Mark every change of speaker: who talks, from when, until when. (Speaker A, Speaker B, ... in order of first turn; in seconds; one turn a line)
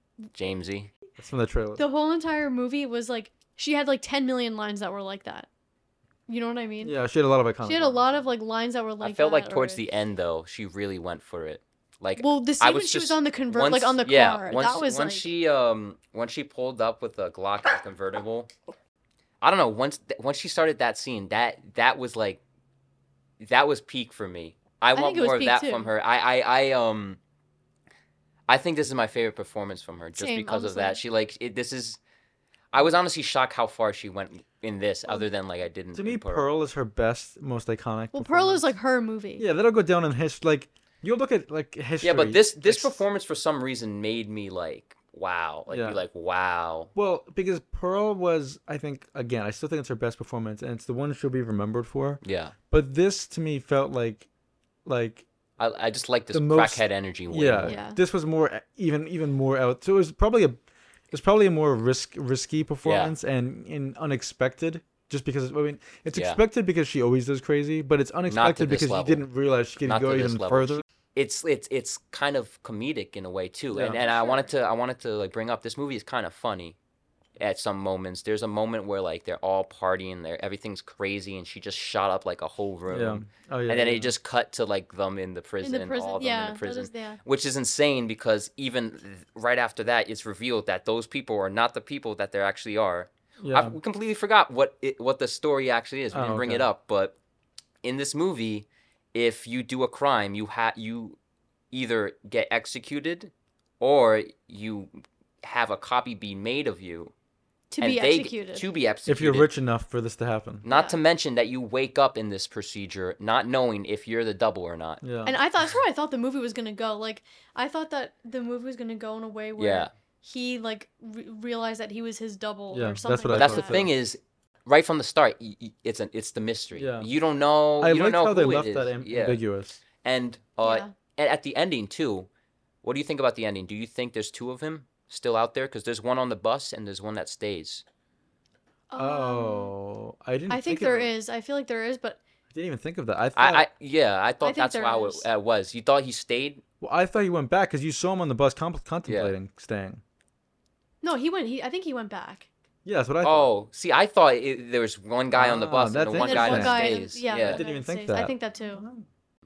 Speaker A: 0.3-0.9
Speaker B: 1.2-1.8
Speaker C: 1.8-5.5
Speaker C: 6.3-7.0
Speaker B: 6.8-8.2
Speaker C: 7.6-9.8
Speaker A: 9.0-18.5
Speaker C: 12.2-15.3
Speaker A: 19.4-22.4
Speaker A: 23.4-27.2
Speaker C: 24.9-25.9
Speaker A: 28.5-32.0
Speaker C: 30.2-31.0
Speaker A: 32.7-36.5
Speaker B: 35.9-38.7
Speaker C: 38.1-39.5
Speaker B: 39.4-43.0
Speaker A: 42.0-46.9
Speaker B: 45.7-46.0
Speaker B: 47.0-54.3
Speaker A: 52.2-52.5
Speaker B: 54.9-55.3
Speaker A: 55.6-57.8
Speaker B: 56.3-60.6
Speaker C: 57.6-58.0
Speaker B: 61.1-70.8
Speaker A: 62.8-63.1
Speaker A: 66.1-66.4
Speaker A: 68.3-69.3
Speaker A: 69.8-76.8
Speaker B: 73.7-74.0
Speaker C: 73.9-74.5
Speaker A: 77.4-97.2
Speaker B: 82.9-84.1
Speaker C: 85.6-87.2
Speaker B: 93.4-93.8
Speaker B: 96.1-96.7
Speaker A: 97.8-101.2
Speaker A: 101.7-107.1
Speaker C: 107.7-108.7
Speaker A: 107.8-109.5
Speaker B: 109.1-110.6
Speaker A: 110.6-115.0
Speaker C: 110.7-111.0
Speaker B: 115.0-115.4
Speaker C: 115.2-123.8
Speaker A: 119.6-119.9
Speaker B: 122.7-123.9
Speaker A: 123.3-129.4
Speaker B: 126.8-127.1
Speaker B: 127.8-129.8
Speaker A: 130.0-132.3
Speaker C: 130.6-130.9
Speaker A: 132.8-137.8
Speaker C: 138.9-139.7
Speaker B: 138.9-141.1
Speaker C: 140.5-142.2
Speaker B: 142.5-143.7
Speaker A: 143.3-146.6
Speaker C: 144.4-145.3
Speaker B: 146.8-150.0
Speaker A: 149.1-149.3
Speaker C: 151.0-152.5
Speaker B: 152.8-153.5
Speaker A: 153.2-157.6
Speaker B: 155.4-159.1
Speaker C: 156.2-158.8